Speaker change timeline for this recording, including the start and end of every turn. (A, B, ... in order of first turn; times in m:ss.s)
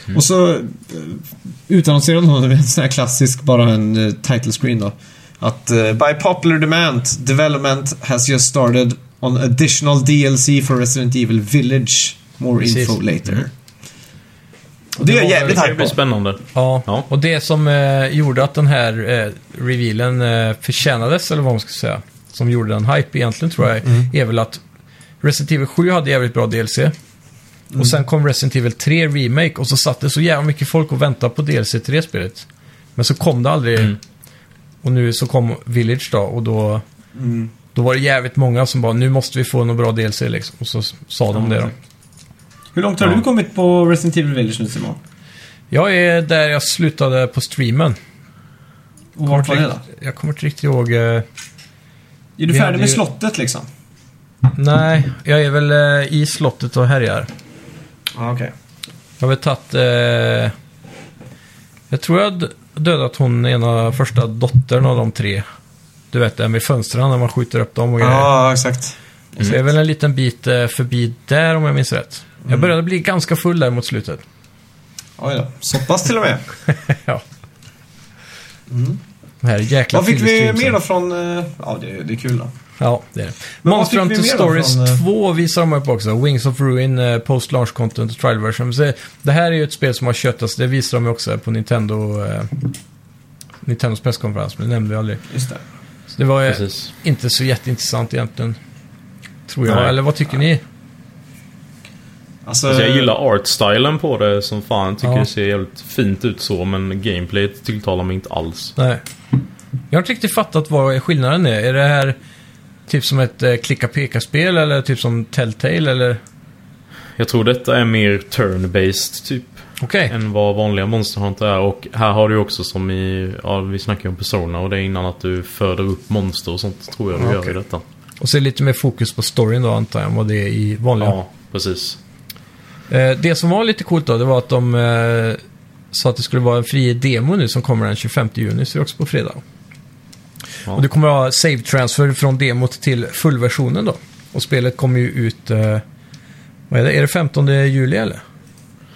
0:00.1-0:13.5 A
0:12.6-0:13.0 B
0:15.0-0:16.0 A
0:15.0-0:15.6 B
0:15.3-0:17.1 C
0:16.5-0:24.6 B
0:25.2-0:26.9 B
0:27.8-0:34.0 B
0:34.8-0:36.8 B
0:37.1-0:37.5 A
0:37.7-0:41.7 B
0:41.4-0:41.7 A
0:42.7-0:45.0 A
0:45.7-0:48.0 B
0:49.2-0:49.8 A
0:49.3-0:51.2 B
0:52.4-0:53.7 A
0:52.5-0:53.0 B
0:54.5-0:57.3 B
0:58.1-0:58.5 A
0:59.2-1:00.5 B
1:01.9-1:05.4 B
1:06.1-1:08.3 B
1:08.0-1:09.5 A
1:09.4-1:14.2 B
1:12.4-1:12.7 A
1:15.2-1:16.4 A
1:16.7-1:17.2 B
1:18.7-1:19.0 A
1:19.4-1:20.8 B
1:19.9-1:22.5 A
1:22.8-1:32.7 B
1:23.6-1:25.0 A
1:33.6-1:35.2 B
1:35.3-1:35.6 A
1:36.1-1:38.6 B
1:36.5-1:36.9 C
1:39.5-1:40.6 B
1:39.6-1:40.0 C
1:42.4-1:43.1 A
1:42.7-1:48.8 C
1:45.0-1:45.3 B
1:48.8-1:49.0 B
1:49.9-1:52.2 B
1:52.9-1:56.2 B
1:57.2-2:07.8 C
1:59.8-2:00.1 B
2:07.2-2:07.6 B
2:08.2-2:11.2 B
2:11.0-2:12.0 C
2:12.9-2:15.4 B
2:15.9-2:19.4 B
2:20.7-2:25.8 B
2:26.7-2:28.2 B